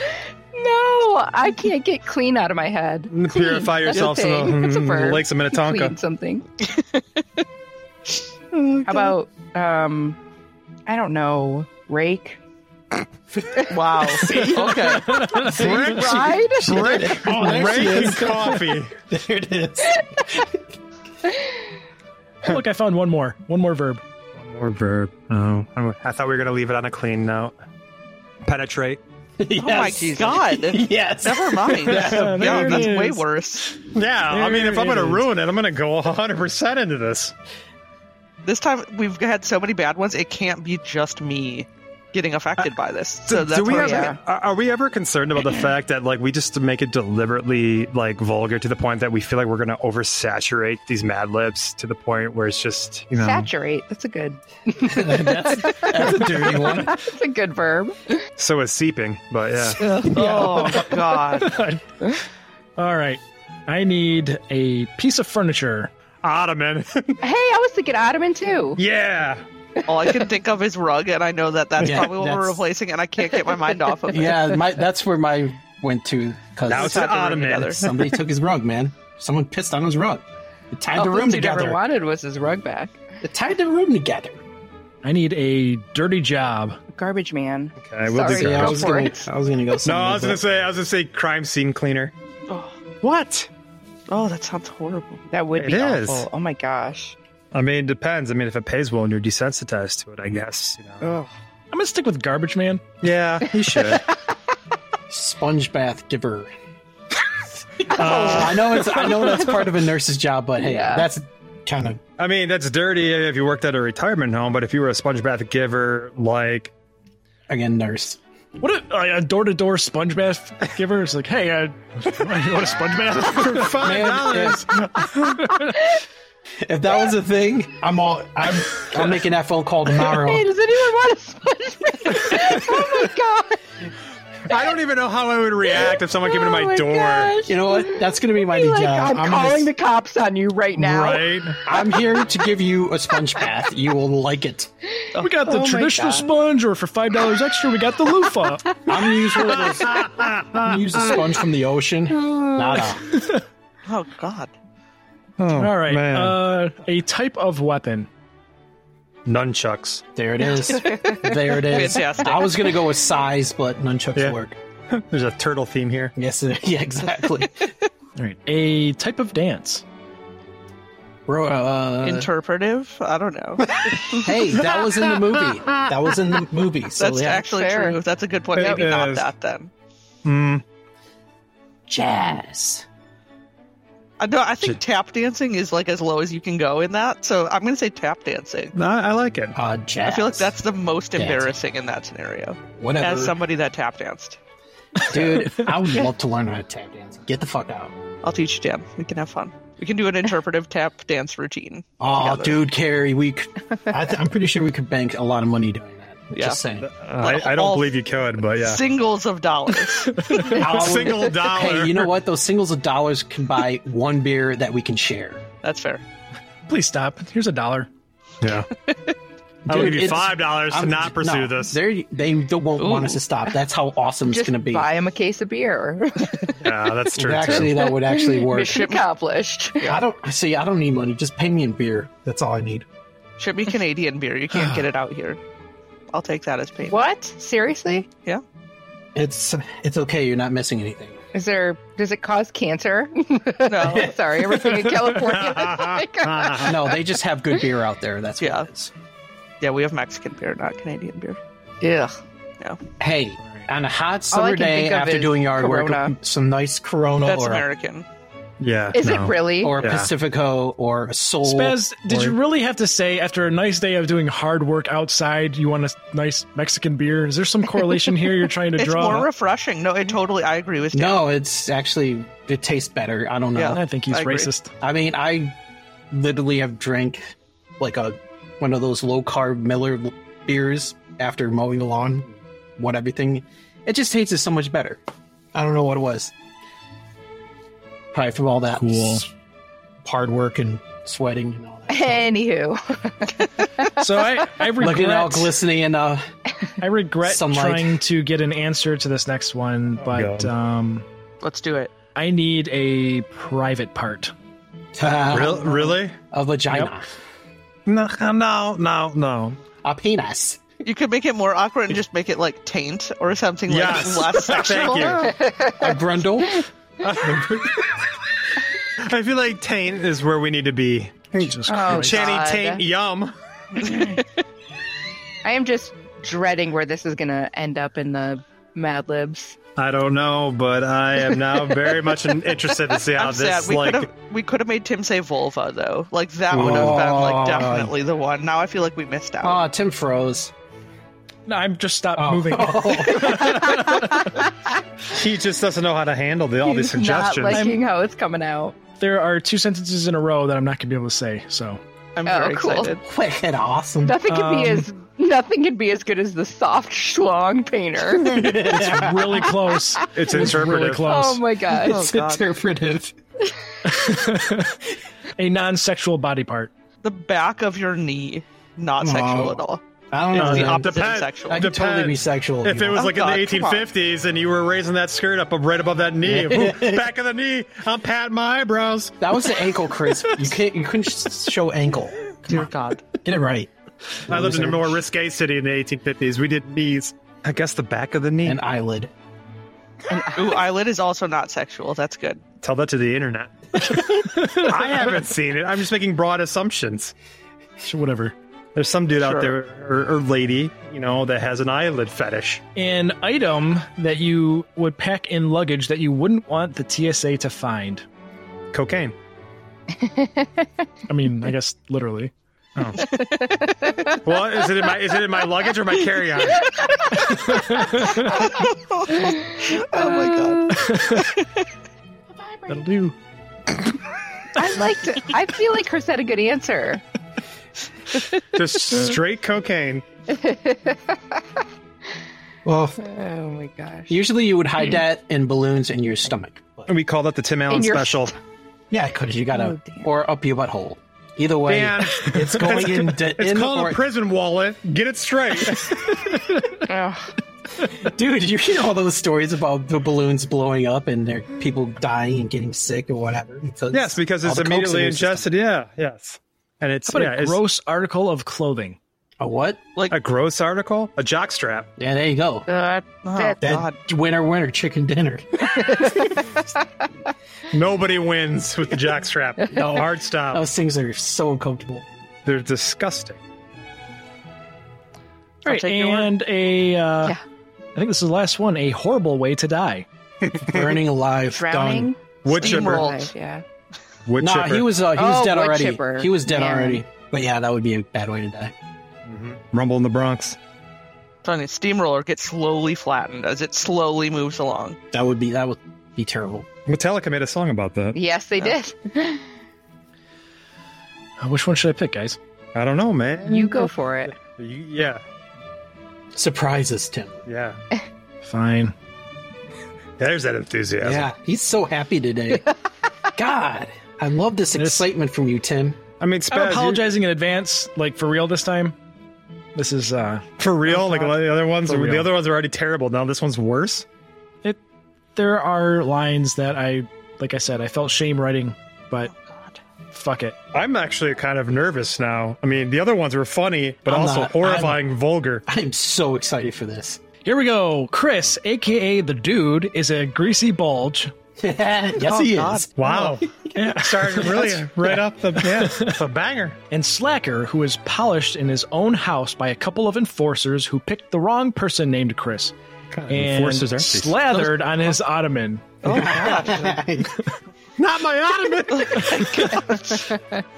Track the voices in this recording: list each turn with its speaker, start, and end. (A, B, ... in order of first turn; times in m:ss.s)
0:00.5-0:06.4 A
0:03.1-0:06.0 B
0:08.5-0:09.1 C
0:08.8-0:10.2 A
0:10.9-0:12.4 A
0:13.3-0:20.6 D
0:13.7-0:15.4 C
0:14.4-0:15.7 E
0:15.5-0:18.9 B
0:15.5-0:17.1 A
0:22.4-0:24.0 E
0:24.4-0:27.5 B
0:28.4-0:29.0 B
0:29.4-0:32.9 D
0:29.6-0:33.8 C
0:31.9-0:33.2 E
0:33.9-0:37.3 B
0:34.3-0:35.3 E
0:38.4-0:44.2 C
0:43.3-0:53.5 B
0:43.7-0:44.2 A
0:53.1-0:58.2 A
0:54.8-0:57.0 D
0:58.4-0:59.8 B
0:59.8-1:01.6 C
1:00.2-1:00.5 D
1:01.4-1:01.8 E
1:02.8-1:05.9 E
1:06.2-1:07.2 B
1:07.2-1:08.8 A
1:08.8-1:09.4 B
1:09.9-1:14.6 C
1:11.8-1:12.6 D
1:14.1-1:17.2 D
1:16.6-1:18.1 B
1:16.7-1:17.8 C
1:17.7-1:21.8 D
1:20.9-1:23.0 A
1:23.2-1:24.4 D
1:25.0-1:26.8 E
1:26.9-1:29.3 A
1:27.8-1:29.1 B
1:28.3-1:30.4 D
1:29.8-1:32.1 B
1:33.0-1:33.5 B
1:34.1-1:35.2 C
1:35.3-1:37.2 A
1:35.6-1:36.3 B
1:37.5-1:41.1 B
1:41.0-1:41.3 A
1:41.7-1:42.9 E
1:43.0-1:44.1 B
1:43.6-1:44.0 A
1:45.1-1:46.5 D
1:47.8-1:52.0 D
1:47.9-1:49.4 B
1:48.0-1:48.5 A
1:50.6-1:51.1 A
1:52.2-1:56.7 B
1:57.5-1:58.2 D
1:58.6-2:04.0 E
2:03.3-2:05.6 B
2:03.8-2:04.7 D
2:06.6-2:10.5 D
2:10.0-2:13.6 A
2:14.5-2:17.4 B
2:15.7-2:21.6 A
2:17.5-2:19.7 D
2:20.8-2:21.6 B
2:21.6-2:24.7 D
2:25.2-2:28.7 E
2:25.5-2:26.2 B
2:28.9-2:33.0 D
2:29.5-2:30.8 B
2:33.1-2:33.4 E
2:33.9-2:34.5 C
2:35.4-2:36.4 B
2:35.6-2:38.1 E
2:39.3-2:40.0 B
2:40.2-2:44.6 D
2:40.7-2:41.6 A
2:41.5-2:42.8 C
2:44.9-2:46.1 B
2:46.2-2:47.7 D
2:48.2-2:49.8 E
2:51.3-2:52.3 D
2:52.0-2:54.3 C
2:54.1-2:57.5 D
2:57.0-2:59.7 C
2:57.4-2:58.0 A
2:58.6-2:59.3 B
3:00.2-3:00.6 B
3:01.9-3:02.9 D
3:04.2-3:08.7 C
3:08.8-3:09.6 B
3:09.6-3:10.6 D
3:10.0-3:14.4 C
3:11.2-3:11.5 D
3:12.8-3:13.4 D
3:15.1-3:17.9 D
3:15.2-3:15.7 E
3:18.2-3:22.6 C
3:22.0-3:26.9 D
3:26.3-3:26.6 C
3:26.8-3:28.8 B
3:27.2-3:30.4 C
3:30.2-3:30.5 E
3:30.5-3:32.1 B
3:30.5-3:35.4 D
3:35.6-3:36.0 C
3:36.7-3:37.9 E
3:38.4-3:38.7 B
3:39.7-3:44.9 D
3:39.7-3:41.8 B
3:42.8-3:43.2 C
3:44.2-3:46.5 A
3:46.6-3:47.9 B
3:47.2-3:48.9 D
3:47.7-3:50.0 A
3:48.7-3:49.0 C
3:49.8-3:52.9 D
3:53.4-3:55.4 C
3:56.1-3:57.0 C
3:56.9-3:58.1 A
3:59.2-4:01.2 D
4:01.3-4:07.0 A
4:03.7-4:04.1 C
4:03.8-4:04.1 D
4:05.2-4:06.8 B
4:06.6-4:08.9 D
4:08.4-4:08.7 C
4:09.6-4:11.4 C
4:11.8-4:12.2 A
4:13.0-4:17.7 D
4:14.3-4:16.2 A
4:17.2-4:18.1 C
4:18.6-4:20.1 B
4:18.9-4:19.9 A
4:19.6-4:22.3 D
4:21.4-4:29.3 E
4:28.8-4:31.2 C
4:30.9-4:33.8 D
4:33.6-4:34.5 C
4:33.7-4:34.7 E
4:34.8-4:35.6 D
4:36.1-4:45.0 D
4:45.5-4:46.3 D
4:48.1-4:49.3 D
4:48.8-4:49.2 E
4:50.0-4:52.3 D
4:51.9-4:53.9 A
4:54.0-4:55.5 E
4:54.8-4:56.3 D
4:56.8-5:01.1 E
4:57.2-4:58.0 D
5:00.0-5:00.5 B
5:01.4-5:01.9 C
5:02.2-5:04.3 E
5:05.0-5:07.2 D
5:05.3-5:06.2 B
5:07.9-5:09.6 B
5:09.8-5:10.6 D
5:10.8-5:15.2 C
5:13.7-5:15.4 B
5:15.0-5:16.0 A
5:15.8-5:16.6 D
5:17.0-5:18.0 B
5:19.0-5:24.0 B
5:21.4-5:22.2 E
5:21.7-5:22.8 A
5:25.4-5:29.6 A
5:29.8-5:34.1 B
5:33.2-5:39.6 C
5:36.5-5:37.1 B
5:36.5-5:38.0 D
5:39.4-5:40.5 D
5:41.5-5:44.3 E
5:42.2-5:43.9 D
5:43.9-5:44.5 A
5:45.1-5:47.8 B
5:46.6-5:48.8 A
5:49.0-5:51.8 E
5:52.2-5:53.0 C
5:52.3-5:53.0 A
5:53.0-5:54.2 D
5:54.0-5:58.5 A
5:54.3-5:54.9 E
5:58.1-5:59.6 D
5:58.6-6:01.4 E
5:59.7-6:00.1 A
6:00.1-6:01.3 B
6:01.0-6:02.1 A
6:01.7-6:03.2 D
6:01.9-6:02.4 C
6:03.8-6:04.8 E
6:05.4-6:06.7 E
6:07.0-6:09.8 C
6:09.0-6:13.2 D
6:10.3-6:19.2 B
6:10.4-6:11.7 C
6:13.0-6:13.9 C
6:16.2-6:17.1 D
6:19.2-6:22.6 D
6:22.5-6:23.0 C
6:23.2-6:23.7 D
6:24.3-6:25.0 D
6:24.3-6:28.6 B
6:28.4-6:29.1 D
6:30.1-6:30.6 A
6:30.4-6:32.4 C
6:32.6-6:37.1 B
6:34.0-6:35.0 E
6:37.8-6:38.4 E
6:38.8-6:42.6 B
6:39.2-6:39.6 C
6:42.8-6:48.0 E
6:48.7-6:49.2 B
6:50.0-6:50.6 A
6:51.1-6:52.3 E
6:52.8-6:53.1 B
6:53.1-6:54.2 A
6:54.2-6:56.8 B
6:56.6-7:00.9 A
6:57.5-6:58.4 E
6:58.4-7:01.6 C
7:00.7-7:01.3 E
7:02.3-7:02.9 A
7:02.7-7:03.2 E
7:04.6-7:07.0 A
7:08.5-7:10.1 B
7:10.3-7:11.4 A
7:12.6-7:13.0 D
7:13.0-7:14.2 A
7:14.1-7:16.9 D
7:16.9-7:18.3 B
7:17.7-7:18.3 A
7:18.9-7:24.0 D
7:19.5-7:20.1 A
7:21.7-7:26.2 B
7:26.3-7:26.6 E
7:26.8-7:27.3 A
7:27.9-7:35.5 D
7:33.9-7:37.6 B
7:37.1-7:39.0 E
7:39.4-7:39.8 D
7:40.1-7:41.9 B
7:42.0-7:42.7 D
7:42.7-7:43.8 A
7:43.2-7:44.0 C
7:43.6-7:46.2 D
7:45.8-7:46.5 A
7:47.7-7:50.6 B
7:49.7-7:52.1 D
7:52.4-7:53.4 B
7:55.6-7:56.3 C
7:55.6-7:57.4 E
7:58.0-8:00.1 E
8:00.5-8:01.0 B
8:00.6-8:02.1 D
8:01.5-8:03.6 A
8:02.4-8:03.2 B
8:02.5-8:03.3 C
8:04.3-8:05.0 B
8:04.4-8:08.7 D
8:05.1-8:07.0 A
8:09.3-8:10.6 B
8:11.4-8:15.0 C
8:15.1-8:16.7 D
8:16.9-8:18.2 B
8:18.1-8:19.4 A
8:21.4-8:22.4 E
8:22.8-8:25.2 B
8:23.4-8:24.3 A
8:26.3-8:27.4 D
8:27.5-8:27.8 B
8:28.4-8:28.9 E
8:30.2-8:31.3 B
8:31.0-8:32.7 D
8:33.3-8:36.0 D
8:34.7-8:35.1 E
8:36.2-8:37.1 B
8:36.5-8:39.0 E
8:39.8-8:42.4 E
8:40.6-8:44.1 B
8:45.4-8:49.3 E
8:49.3-8:49.8 C
8:50.1-8:50.6 E
8:50.7-8:55.6 B
8:54.1-8:55.0 D
8:55.7-8:57.2 D
8:57.4-9:01.3 E
9:01.6-9:03.7 D
9:02.3-9:03.3 C
9:03.0-9:06.8 B
9:03.8-9:04.8 E
9:04.4-9:04.8 D
9:05.7-9:06.2 E
9:06.9-9:12.7 E
9:13.1-9:14.5 B
9:13.3-9:16.1 E
9:16.0-9:16.9 C
9:16.1-9:17.3 D
9:16.1-9:16.6 B
9:18.0-9:19.8 B
9:19.7-9:20.6 A